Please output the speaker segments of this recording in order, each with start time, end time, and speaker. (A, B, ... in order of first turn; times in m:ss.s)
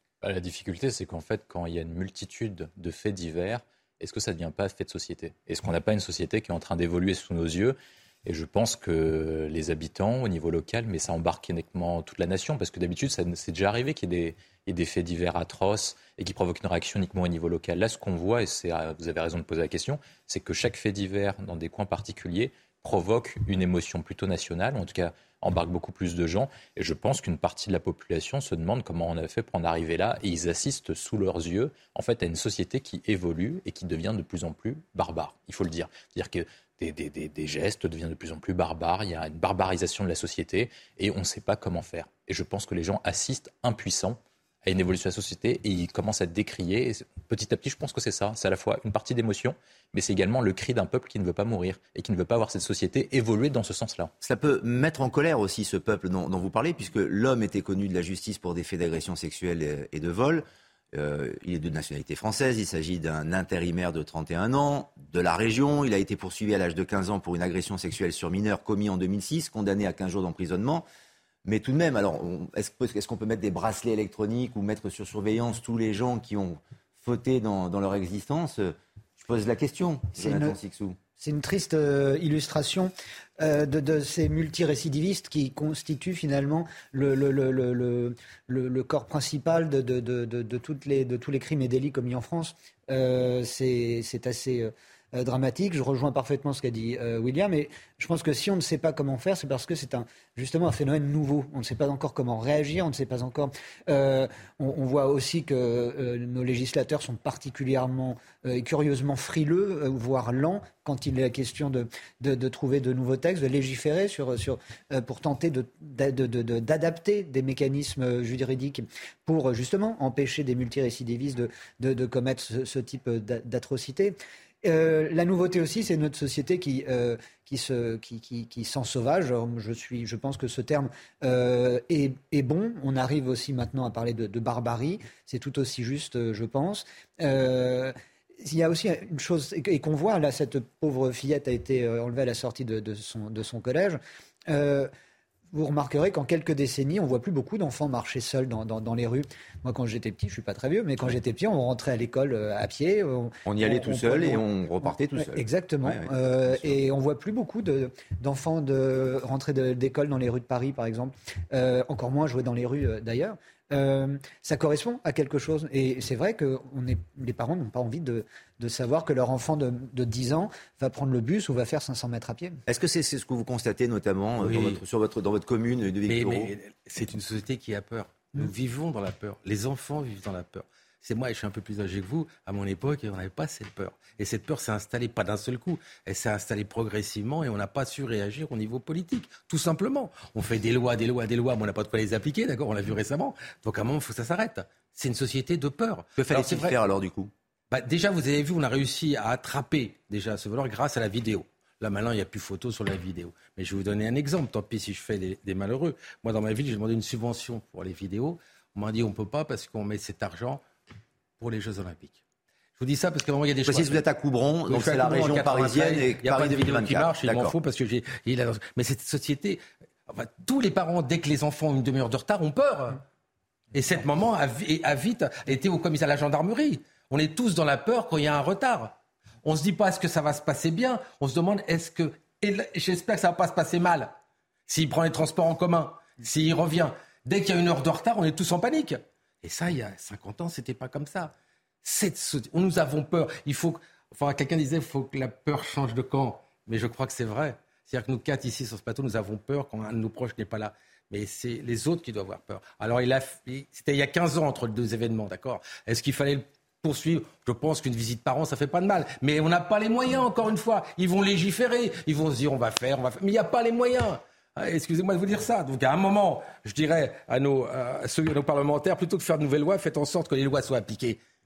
0:00.2-0:54.1 A
0:54.2-1:10.8 B
1:11.4-1:21.0 B
1:20.2-1:20.6 C
1:21.2-2:17.9 C
2:18.4-2:24.9 C
2:25.5-2:34.4 C
2:33.4-2:36.8 B
2:35.2-2:52.6 C
2:52.7-2:56.5 B
2:54.4-2:54.8 D
2:56.1-3:16.8 D
3:16.2-3:17.3 B
3:17.7-3:30.6 D
3:31.4-3:32.2 D
3:32.8-3:34.0 D
3:33.6-3:37.5 B
3:34.7-3:43.0 D
3:43.7-3:54.1 D
3:54.7-4:01.3 D
4:01.8-4:31.2 D